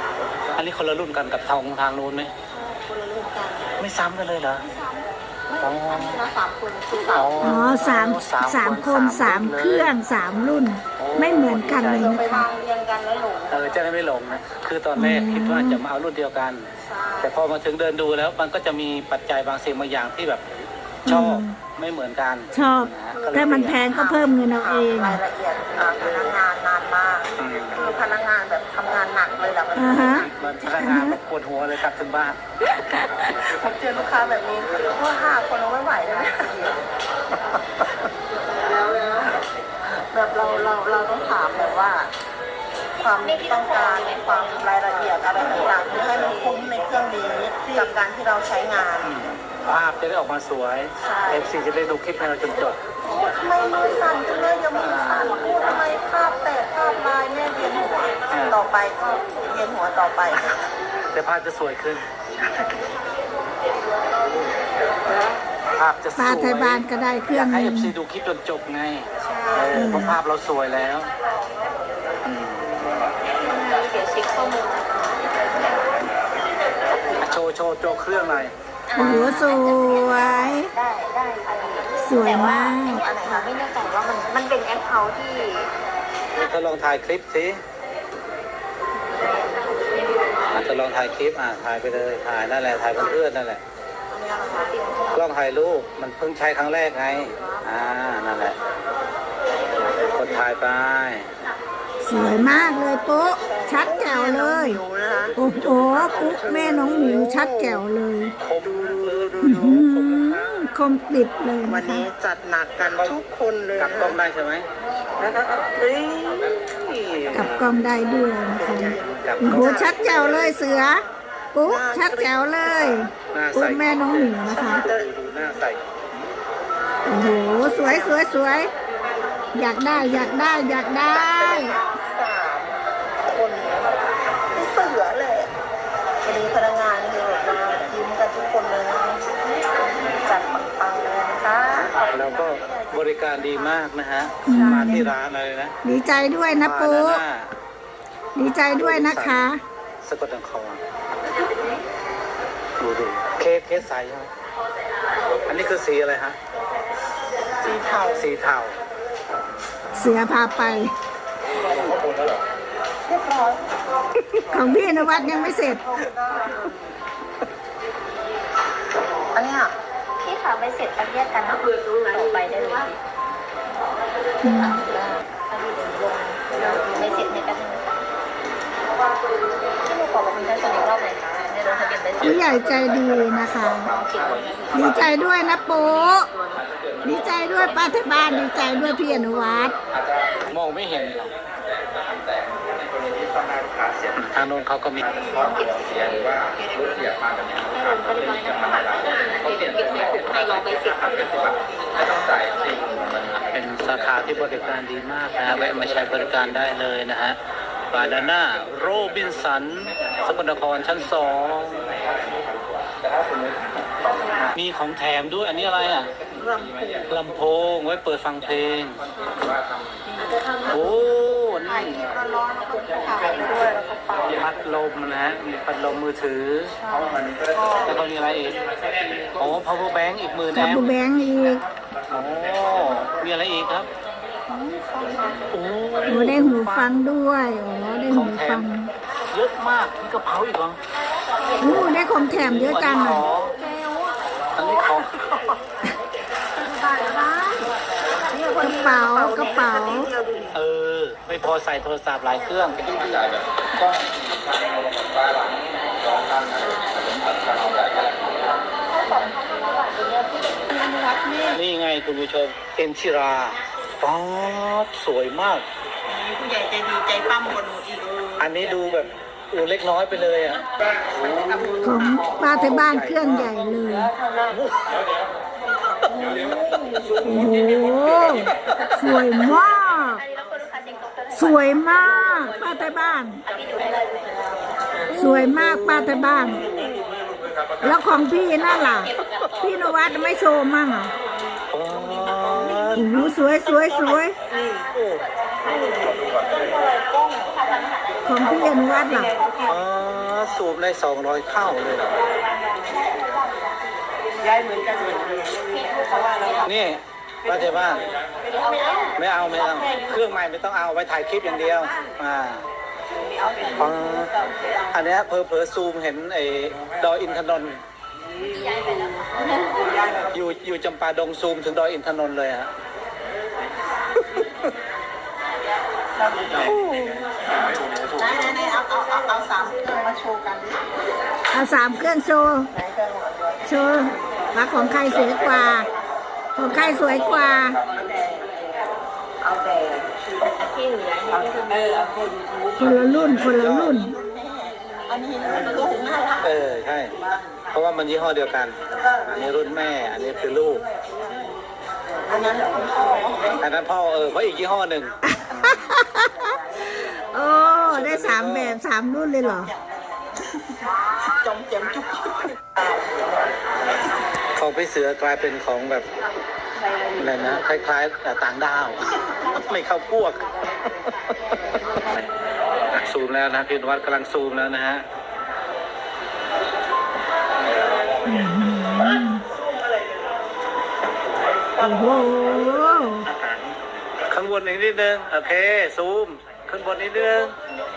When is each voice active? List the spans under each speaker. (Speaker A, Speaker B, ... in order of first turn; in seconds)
Speaker A: 0.5-2.3, 3.8-4.6, 5.6-6.2, 7.0-9.9, 11.0-12.2, 13.5-16.7, 17.2-20.5, 21.1-23.8, 27.4-27.8, 29.8-32.4, 49.0-52.8, 54.8-55.5, 58.3-58.5, 61.1-62.0, 65.7-71.1, 72.2-73.1, 77.2-79.4, 86.3-87.6, 90.5-93.6, 95.1-98.6, 100.0-101.3, 105.3-106.6, 108.4-110.7, 113.8-114.7, 115.2-117.8, 118.6-119.8, 123.3-125.8, 142.1-145.8, 146.6-147.5, 148.7-149.5, 150.0-150.8, 152.8-154.3, 155.5-156.4, 158.1-158.8, 190.5-191.3, 194.1-195.1, 203.5-207.4, 207.9-212.0, 214.5-216.1, 217.1-219.0, 220.7-222.0, 224.2-226.8, 227.8-228.6, 229.2-230.9, 232.1-233.9, 235.5-237.0, 238.1-238.7, 239.3-240.8, 242.3-243.5, 244.6-245.6, 250.5-252.9, 261.5-265.6, 268.4-270.6, 272.5-273.5, 274.5-274.8, 285.7-286.1, 291.7-293.3, 294.9-295.2, 299.7-302.2, 306.6-308.1, 309.1-312.6, 313.8-314.3, 314.9-317.8, 320.3-322.7, 327.8-328.2, 342.8-344.1, 346.4-347.1, 347.7-350.8, 353.6-355.9, 357.9-358.8, 364.6-366.1, 367.2-370.5, 371.0-371.6, 372.9-375.0, 384.3-387.5
Speaker B: 2.5-3.8, 4.6-7.7, 11.7-13.8, 16.9-17.3, 23.1-30.3, 33.3-36.8, 38.6-39.3, 40.0-42.1, 43.0-49.1, 51.0-51.5, 53.0-60.5, 69.2-70.1, 78.9-79.5, 82.9-83.5, 94.1-94.8, 97.3-97.7, 103.3-105.4, 105.9-107.8, 108.6-109.4, 111.7-114.2, 118.6-120.7, 121.6-123.0, 124.5-125.1, 127.6-128.7, 130.1-134.0, 134.5-135.5, 136.2-139.3, 140.0-143.8, 144.5-144.9, 157.6-158.3, 161.7-162.2, 163.1-166.7, 169.3-169.7, 174.8-175.2, 176.6-177.1, 179.8-182.5, 183.9-184.5, 216.3-217.1, 220.1-220.7, 221.6-224.5, 226.8-228.0, 234.5-235.5, 241.4-241.9, 243.5-245.0, 246.6-250.6, 252.9-253.4, 256.6-257.2, 258.8-261.6, 266.1-268.3, 271.1-272.5, 274.2-274.6, 275.8-277.3, 285.1-285.4, 292.5-294.9, 295.6-299.8, 302.8-303.7, 304.4-306.7, 308.5-309.1, 309.7-310.0, 313.2-314.9, 319.3-320.2, 326.2-326.7, 328.1-330.9, 332.7-333.7, 337.9-338.6, 339.4-340.1, 341.4-342.3, 343.5-346.6, 348.9-351.5, 352.3-353.6, 359.4-360.4, 361.3-363.2
Speaker C: 7.4-12.5, 14.9-15.8, 21.1-21.6, 22.5-25.2, 29.7-31.2, 66.2-67.9, 69.7-70.2, 79.0-80.7, 82.0-83.0, 102.0-104.8, 105.3-108.3, 109.4-112.0, 117.3-121.0, 121.5-124.8, 127.0-128.7, 129.5-131.7, 144.4-145.1, 145.8-147.2, 148.3-149.6, 159.9-160.9, 164.5-165.8, 174.4-174.8, 182.2-183.9, 184.7-186.3, 187.0-189.7, 230.5-231.6, 236.1-238.9, 241.6-243.3, 248.6-250.1, 271.8-274.1, 277.2-280.2, 281.3-283.4, 285.1-286.6, 287.8-291.1, 292.9-294.3, 298.2-299.4, 326.6-327.2, 331.5-332.7, 333.6-335.9, 336.6-337.8, 342.8-344.1, 355.2-359.7, 378.2-379.4, 381.8-383.2
Speaker D: 43.2-44.6, 46.2-46.5, 73.4-75.5, 76.9-77.3, 79.3-85.7, 89.1-90.5, 170.2-172.9, 175.3-177.8, 180.5-181.0, 181.7-182.2, 183.9-185.2, 185.7-186.6, 187.5-188.0, 195.3-196.4, 197.6-203.2, 280.1-282.7, 283.4-284.7, 289.3-289.7, 305.9-306.6, 308.5-309.2, 318.5-319.5, 340.7-341.9